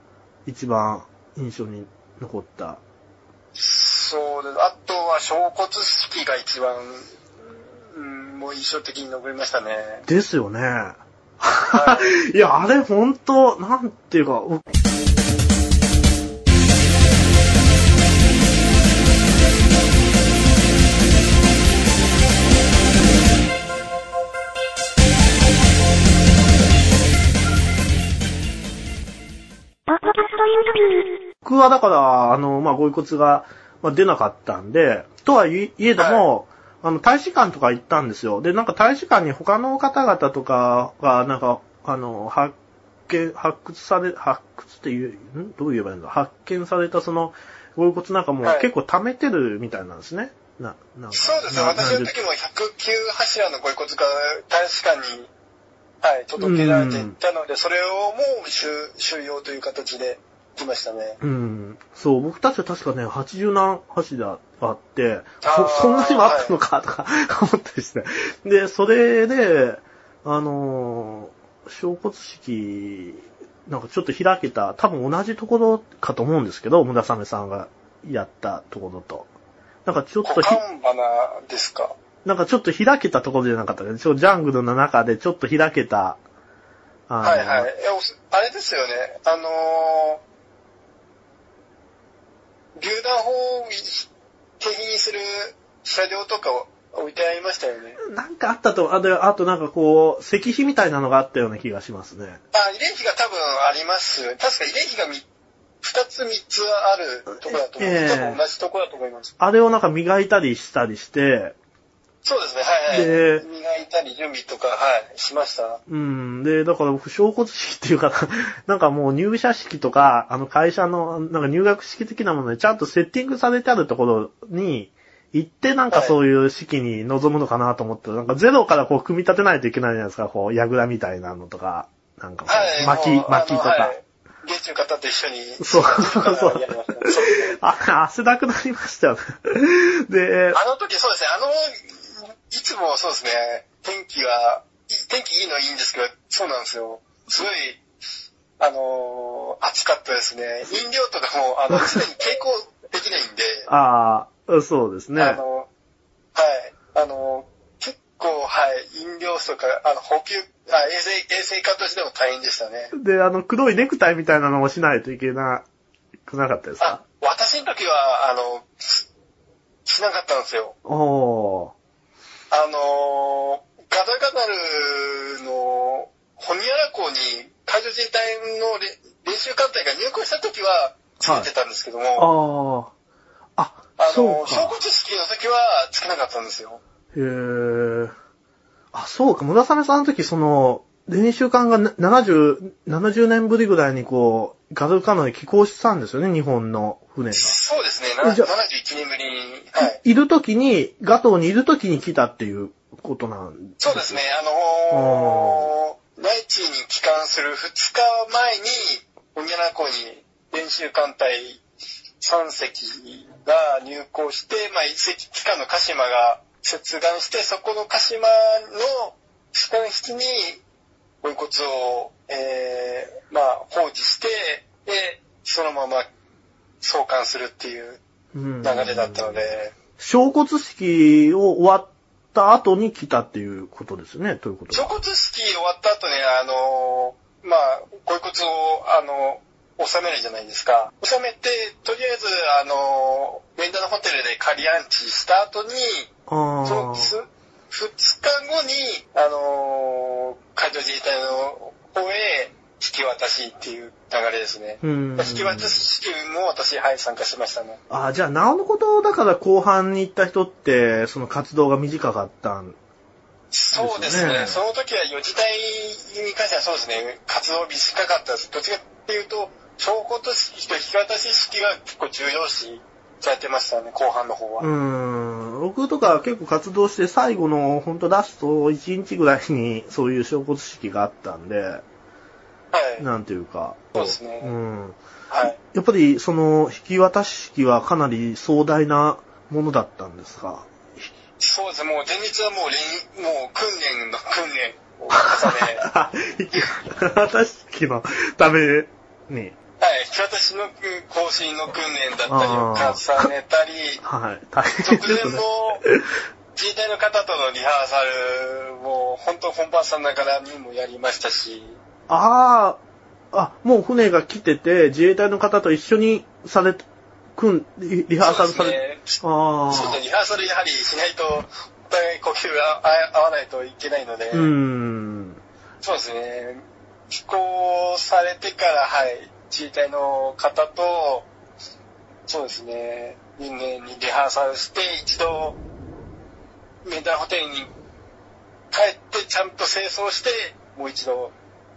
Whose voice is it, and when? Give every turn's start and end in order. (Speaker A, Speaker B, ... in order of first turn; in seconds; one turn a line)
Speaker A: 0.5-2.8
Speaker B: 3.5-7.1
Speaker B: 7.9-10.1
Speaker A: 10.1-14.6
Speaker B: 11.7-12.1
Speaker A: 31.4-42.5
Speaker B: 36.0-36.3
Speaker A: 43.1-52.1
Speaker B: 48.4-48.7
Speaker B: 51.1-55.3
Speaker B: 56.0-61.2
Speaker A: 56.4-57.2
Speaker A: 61.2-79.3
Speaker B: 65.4-66.6
Speaker A: 79.8-80.6
Speaker B: 80.2-82.0
Speaker A: 82.2-86.2
Speaker A: 87.1-87.7
Speaker B: 87.2-90.2
Speaker B: 92.8-94.1
Speaker B: 94.6-98.0
Speaker A: 98.0-102.4
Speaker B: 102.5-105.3
Speaker B: 105.8-109.3
Speaker A: 107.4-108.4
Speaker A: 109.4-111.6
Speaker B: 112.2-115.8
Speaker A: 112.9-113.5
Speaker A: 115.9-133.9
Speaker B: 125.9-126.2
Speaker B: 132.5-137.6
Speaker A: 135.6-136.7
Speaker A: 137.5-140.6
Speaker B: 140.5-147.8
Speaker B: 148.6-153.7
Speaker A: 151.7-152.0
Speaker A: 153.7-155.4
Speaker B: 155.2-155.7
Speaker B: 156.3-162.9
Speaker A: 162.9-165.7
Speaker A: 166.3-167.0
Speaker B: 166.8-169.0
Speaker B: 169.8-170.8
Speaker A: 170.8-171.7
Speaker B: 172.5-182.3
Speaker A: 181.2-181.5
Speaker A: 182.2-182.9
Speaker A: 183.6-184.8
Speaker B: 184.0-186.8
Speaker A: 187.1-188.1
Speaker A: 188.9-197.6
Speaker B: 197.3-200.0
Speaker A: 198.2-198.5
Speaker A: 199.8-204.2
Speaker B: 203.8-211.6
Speaker A: 204.9-205.7
Speaker B: 212.2-220.6
Speaker B: 221.2-226.1
Speaker B: 226.8-228.0
Speaker A: 228.3-234.9
Speaker B: 228.6-229.8
Speaker B: 234.7-246.1
Speaker A: 246.3-247.1
Speaker B: 246.6-257.8
Speaker A: 254.8-255.9
Speaker A: 257.9-262.8
Speaker B: 263.5-274.7
Speaker A: 263.8-264.6
Speaker A: 274.6-281.8
Speaker B: 282.7-283.1
Speaker A: 283.0-285.0
Speaker B: 283.9-284.6
Speaker B: 285.3-285.6
Speaker A: 285.7-291.1
Speaker B: 291.4-295.9
Speaker A: 295.1-299.6
Speaker B: 299.8-304.0
Speaker A: 302.3-303.3
Speaker A: 304.0-306.0
Speaker B: 304.8-305.8
Speaker B: 306.6-311.8
Speaker A: 312.1-312.8
Speaker A: 313.3-316.9
Speaker A: 317.4-320.0
Speaker B: 318.2-324.5
Speaker A: 324.3-325.4
Speaker B: 325.8-331.3
Speaker B: 332.3-335.6
Speaker B: 336.9-337.7
Speaker B: 338.7-341.4